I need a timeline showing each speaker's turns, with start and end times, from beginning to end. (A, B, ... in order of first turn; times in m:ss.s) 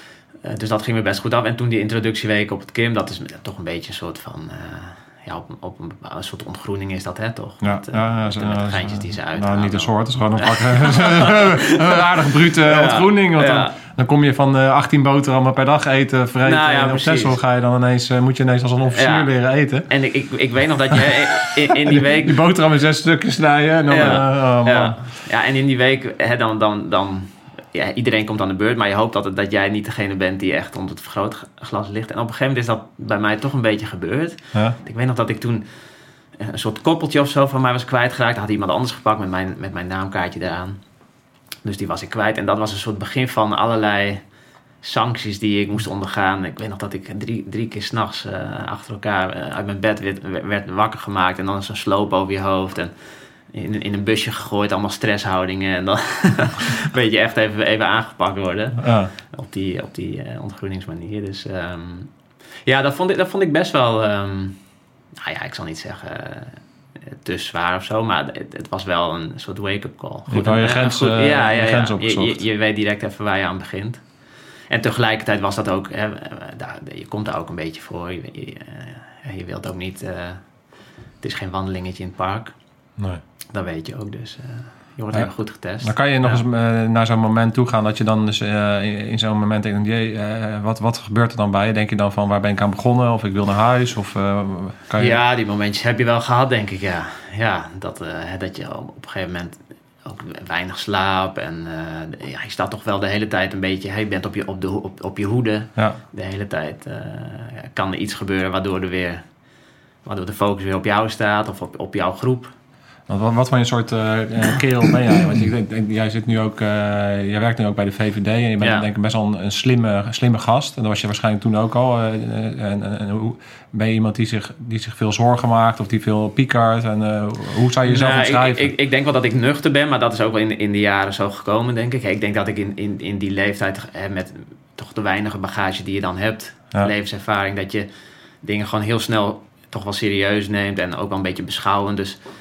0:00.4-0:12.0 A
0:07.6-0:19.9 B
0:12.6-0:13.7 A
0:16.4-0:17.4 A
0:19.0-0:19.3 A
0:19.9-0:22.4 A
0:21.9-0:25.0 B
0:23.9-0:35.7 A
0:36.4-0:40.8 A
0:41.6-0:44.2 A
0:44.8-0:52.9 A
0:53.5-1:02.1 A
0:58.8-0:59.1 B
1:02.6-1:04.6 A
1:05.2-1:14.0 A
1:10.3-1:12.4 B
1:14.7-1:20.4 A
1:21.2-1:22.6 A
1:23.5-1:26.4 A
1:25.8-1:35.2 B
1:35.0-1:49.2 A
1:50.0-1:52.5 A
1:53.1-2:08.7 B
2:07.9-2:17.9 A
2:18.4-2:22.2 A